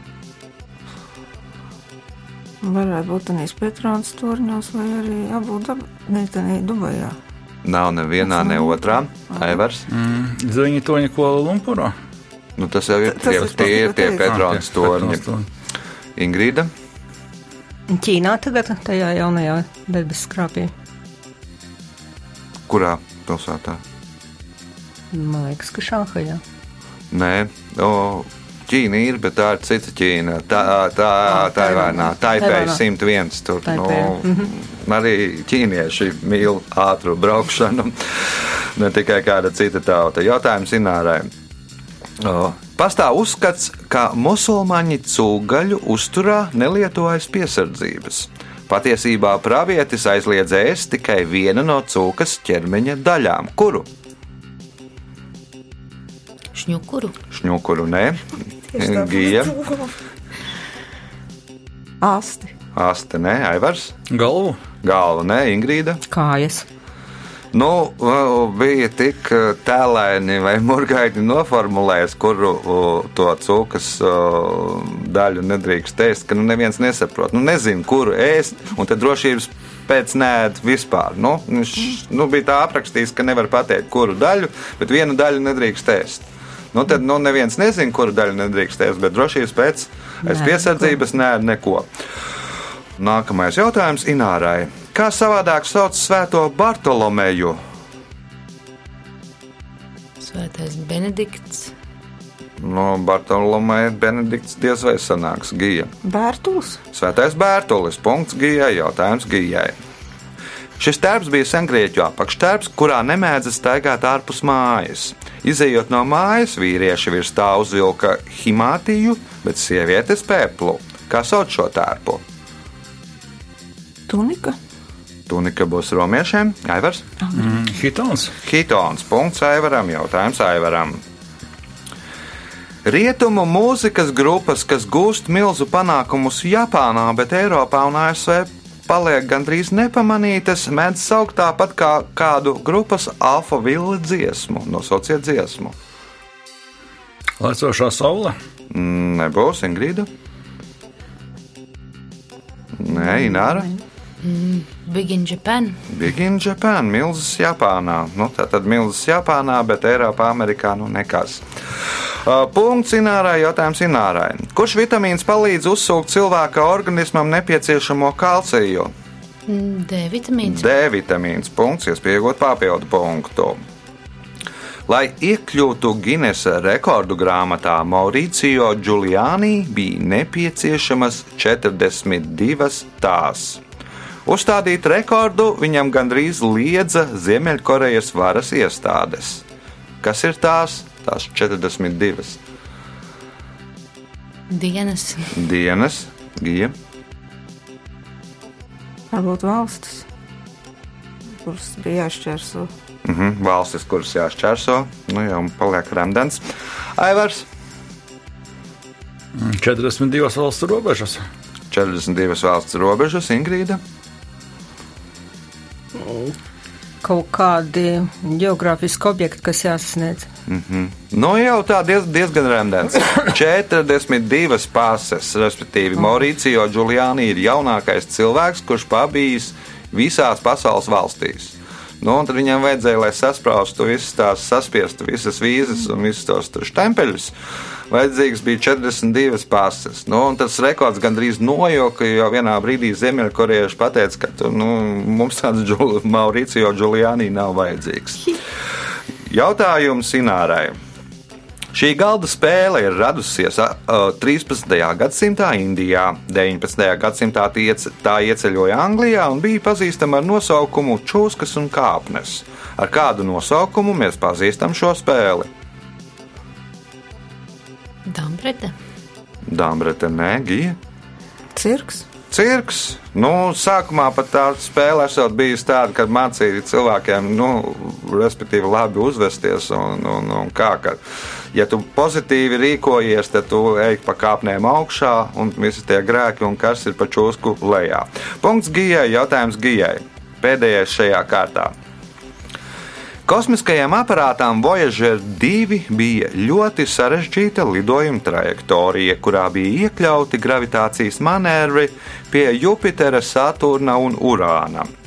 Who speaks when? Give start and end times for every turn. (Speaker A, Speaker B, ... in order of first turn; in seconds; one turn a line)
Speaker A: 2.6-7.2
Speaker B: 7.6-9.9
Speaker A: 8.3-8.8
Speaker C: 9.9-11.9
Speaker B: 12.6-15.2
Speaker A: 13.1-14.2
Speaker C: 14.2-15.5
Speaker B: 16.2-16.7
Speaker D: 17.9-20.7
Speaker B: 22.7-23.8
Speaker D: 25.1-26.4
Speaker B: 27.1-41.3
Speaker D: 31.4-32.8
Speaker D: 33.7-34.5
Speaker B: 42.2-53.9
Speaker E: 56.5-57.1
Speaker B: 57.3-58.2
Speaker A: 58.7-59.9
Speaker B: 58.8-59.5
Speaker A: 62.0-62.5
Speaker B: 62.7-63.9
Speaker C: 64.1-64.6
Speaker B: 64.8-66.0
Speaker D: 66.1-66.7
Speaker B: 67.5-91.9
Speaker B: 93.0-97.6
Speaker E: 100.2-101.7
Speaker B: 102.6-105.9
Speaker A: 106.0-106.8
Speaker B: 106.9-109.7
Speaker B: 110.8-122.2
Speaker A: 124.1-124.6
Speaker B: 125.3-127.0
Speaker C: 127.3-128.3
Speaker B: 128.4-131.0
Speaker B: 132.8-145.8
Speaker C: 147.4-148.4
Speaker B: 148.7-150.1
Speaker B: 152.8-153.7
Speaker E: 154.2-155.8
Speaker B: 155.9-168.9
Speaker E: 169.5-170.7
Speaker B: 170.4-173.6
Speaker B: 174.9-183.6
Speaker B: 184.3-189.4
Speaker B: 190.0-192.4
Speaker E: 194.5-195.4
Speaker B: 195.3-196.7
Speaker A: 199.1-200.1
Speaker A: 201.4-202.7
Speaker B: 203.1-206.4
Speaker B: 207.0-207.5
Speaker C: 209.3-211.2
Speaker B: 211.7-213.8
Speaker D: 216.0-216.3
Speaker D: 217.0-220.3
Speaker B: 220.5-237.3
Speaker B: 237.9-248.4
Speaker B: 249.3-250.8
Speaker B: 251.7-265.5
Speaker E: 268.1-268.8
Speaker B: 269.5-270.8
Speaker A: 271.6-272.1
Speaker B: 272.3-281.0
Speaker B: 281.5-291.7
Speaker B: 293.3-304.9